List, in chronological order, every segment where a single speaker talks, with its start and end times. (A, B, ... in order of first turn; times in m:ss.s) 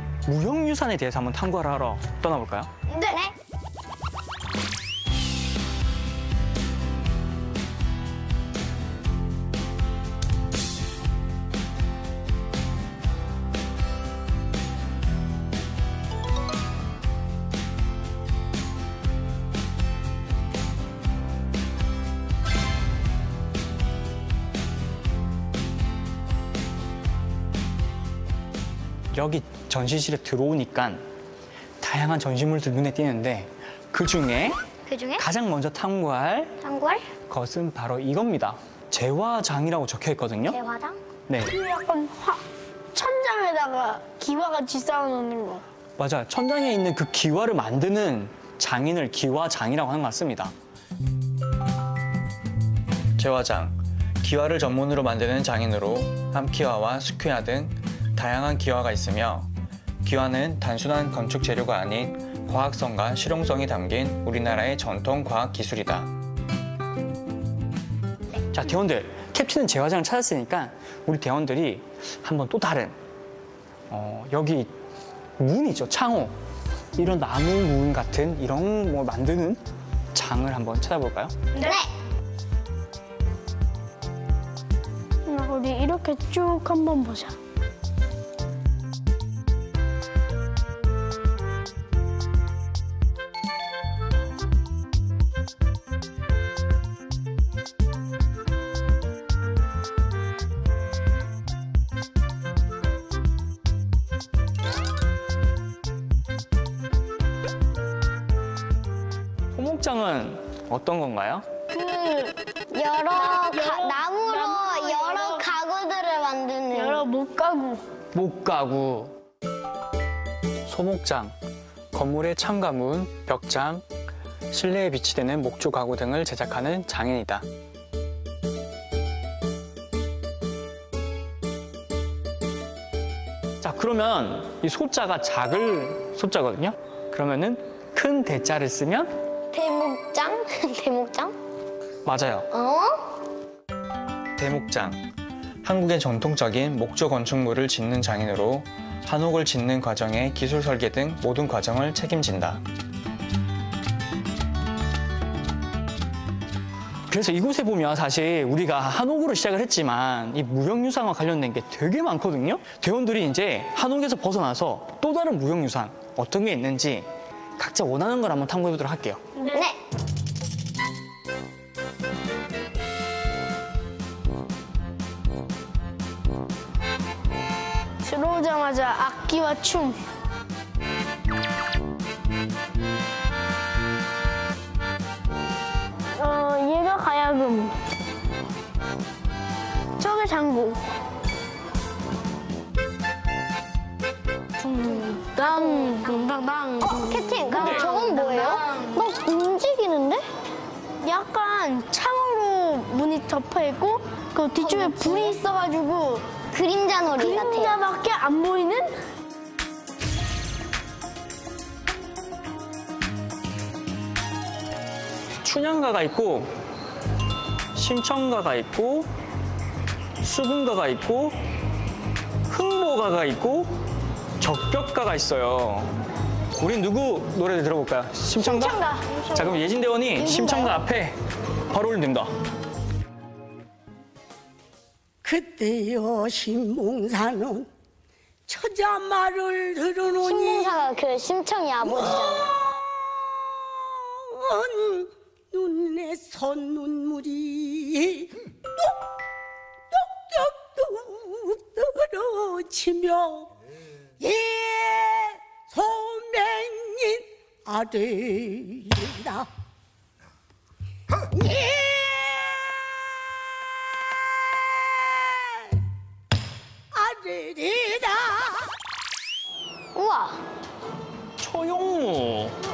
0:00.3-0:02.7 A
0:02.9-0:03.2 B
0:02.9-0:03.4 C
0:29.1-0:31.0 A
0:31.8-0:34.6 A
0:34.9-0:35.2 C
0:35.2-0:36.6 A
0:36.6-0:37.1 C
0:37.3-0:40.6 A
0:40.5-0:41.0 C
0:41.5-0:42.4 B
0:43.0-0:45.6 B
0:46.0-0:50.5 A
0:53.2-0:59.5 A
1:00.0-1:06.1 A
1:08.5-1:13.0 A
1:13.9-1:14.7 A
1:15.4-1:16.4 A
1:17.0-1:19.6 A
1:20.1-1:21.4 A
1:21.6-1:21.9 C
1:25.2-1:27.4 B
1:49.6-1:51.5 A
1:51.7-1:52.4 B
1:52.7-1:57.0 C
1:53.1-1:55.5 B
1:56.7-1:57.8 B
1:58.1-1:59.2 A
2:00.7-2:01.4 A
2:01.9-2:03.8 A
2:04.5-2:07.5 A
2:13.6-2:19.1 A
2:19.5-2:21.4 C
2:22.0-2:22.5 A
2:22.5-2:23.0 C
2:24.4-2:25.0 A
2:25.6-2:32.6 A
2:37.1-2:47.1 A
2:47.6-2:49.2 A
2:49.4-2:49.7 B
2:49.5-2:49.8 C
2:58.0-3:00.0 B
3:06.1-3:07.8 B
3:10.0-3:10.8 B
3:14.6-3:19.1 B
3:15.4-3:16.2 C
3:16.8-3:20.3 C
3:17.6-3:17.9 A
3:21.0-3:26.3 B
3:24.6-3:25.4 C
3:26.5-3:27.8 C
3:27.2-3:29.0 B
3:35.4-3:36.5 A
3:37.8-3:39.1 A
3:40.2-3:41.4 A
3:42.5-3:43.8 A
3:44.4-3:46.0 A
3:46.6-3:48.8 A
3:48.4-3:49.2 C
3:48.7-3:49.7 B
3:49.3-3:51.2 A
3:50.1-3:50.8 C
3:51.7-3:52.3 A
3:55.2-3:57.7 D
3:58.5-4:00.8 D
4:00.2-4:02.5 C
4:01.8-4:02.4 D
4:03.4-4:08.3 D
4:09.9-4:13.5 D
4:14.2-4:19.5 D
4:21.3-4:22.7 D
4:26.9-4:28.7 D
4:29.9-4:30.4 C
4:31.4-4:32.6 A